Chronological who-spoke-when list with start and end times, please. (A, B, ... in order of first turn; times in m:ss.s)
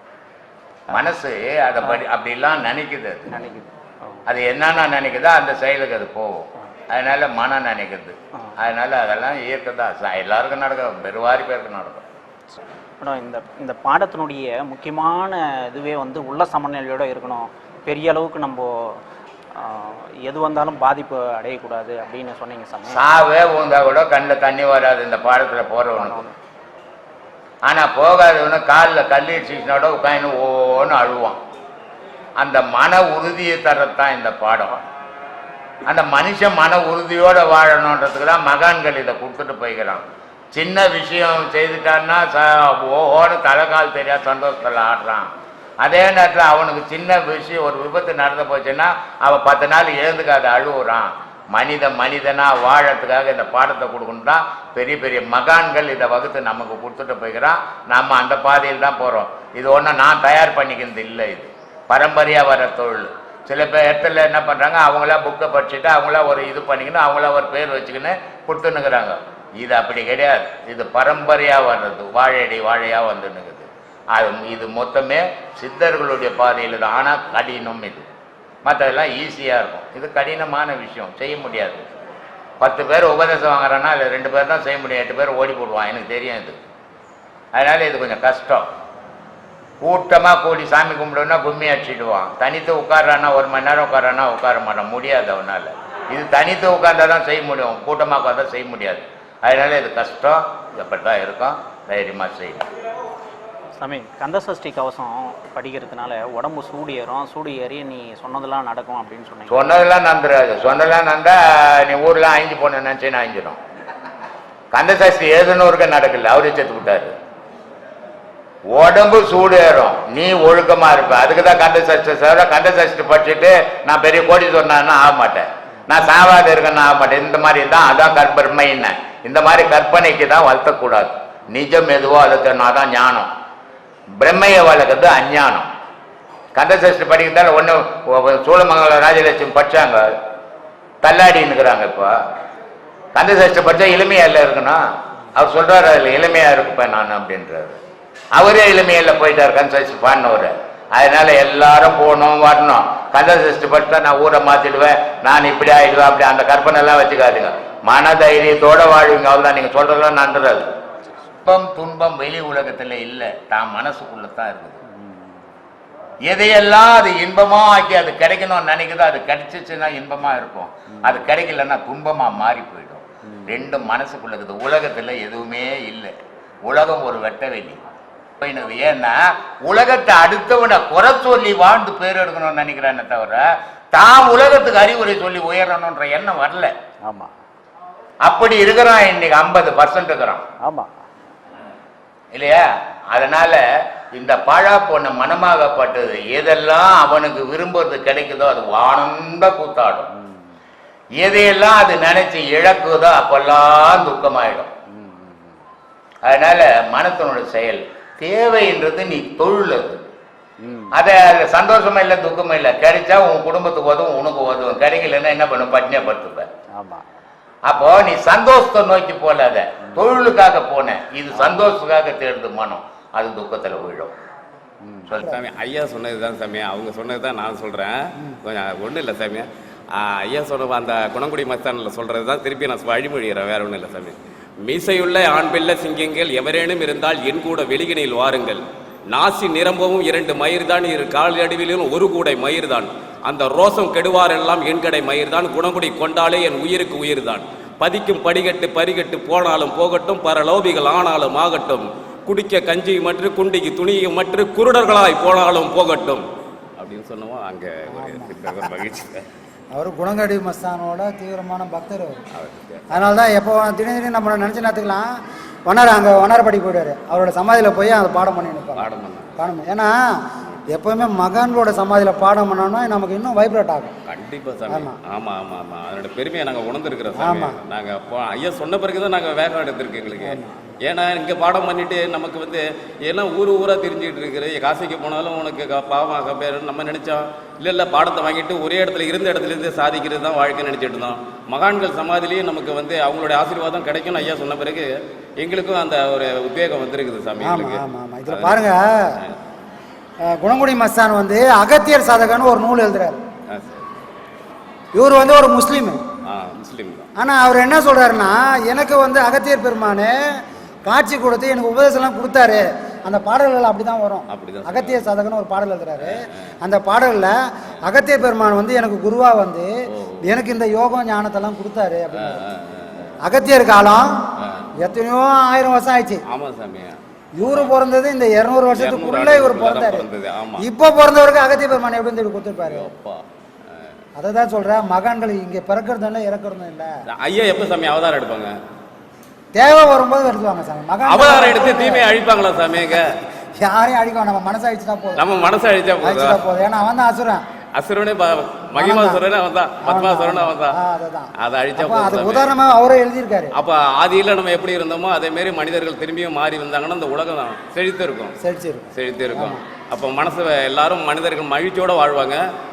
0:00.9-0:03.3 A
0:03.3-0:04.2 B
0:04.3-0:12.0 A
0:13.0-0:19.0 B
0:19.6-0:23.0 B
0:22.9-0:26.2 A
0:26.0-0:26.4 B
0:27.7-0:31.4 A
0:32.4-0:34.8 A
0:35.9-0:45.3 A
0:45.8-1:18.0 A
1:18.6-1:21.8 A
1:22.6-1:26.6 A
1:27.6-1:28.7 A
1:29.8-1:42.7 A
1:43.8-1:49.6 B
1:49.5-1:53.6 A
1:54.7-1:57.1 A
1:58.7-2:13.3 A
2:14.2-2:15.7 A
2:16.6-2:20.1 A
2:21.0-2:22.2 A
2:23.2-2:24.8 A
2:25.4-2:27.8 A
2:28.4-2:40.7 A
2:41.4-2:44.8 A
2:46.3-2:56.1 A
2:50.9-2:51.2 B
2:53.3-2:53.5 B
2:56.7-2:57.8 A
2:58.4-3:06.7 A
3:07.1-3:07.3 B
3:08.2-3:10.4 A
3:10.6-3:10.9 B
3:12.3-3:20.1 A
3:21.2-3:24.7 A
3:24.9-3:25.5 B
3:26.2-3:30.0 A
3:30.6-3:31.0 B
3:30.9-3:36.5 A
3:36.8-3:37.0 B
3:37.7-3:44.1 A
3:44.8-3:45.1 B
3:45.2-4:16.2 C
4:16.8-4:19.2 C
4:17.9-4:18.7 D
4:19.7-4:22.2 D
4:22.3-4:23.0 C
4:22.9-4:25.1 D
4:25.7-4:34.0 D
4:28.8-4:29.4 C
4:34.1-4:58.7 C
4:34.7-4:35.0 D
4:37.2-4:37.6 D
4:40.2-4:40.6 D
4:57.4-4:59.2 D
5:00.2-5:03.2 D
5:03.5-5:03.9 C
5:05.0-5:06.0 D
5:06.3-5:07.1 C
5:07.2-5:10.2 D
5:10.9-5:22.4 D
5:14.3-5:15.1 C
5:16.0-5:16.3 C
5:19.9-5:20.2 C
5:22.1-5:23.2 C
5:23.2-5:24.1 D
5:24.4-5:24.7 C
5:24.8-5:26.2 D
5:26.3-5:27.8 C
5:27.4-5:32.9 D
5:28.7-5:30.7 C
5:32.6-5:33.2 C
5:34.2-5:36.9 D
5:37.1-5:38.5 C
5:39.5-5:42.1 D
5:41.0-5:43.2 C
5:43.0-5:45.3 D
5:45.2-5:46.5 C
5:46.0-5:47.4 D
5:47.8-5:50.8 C
5:48.8-5:49.2 D
5:49.8-5:53.5 D
5:51.4-5:52.5 C
5:53.6-5:58.3 C
5:58.4-5:59.6 D
5:58.9-6:02.4 C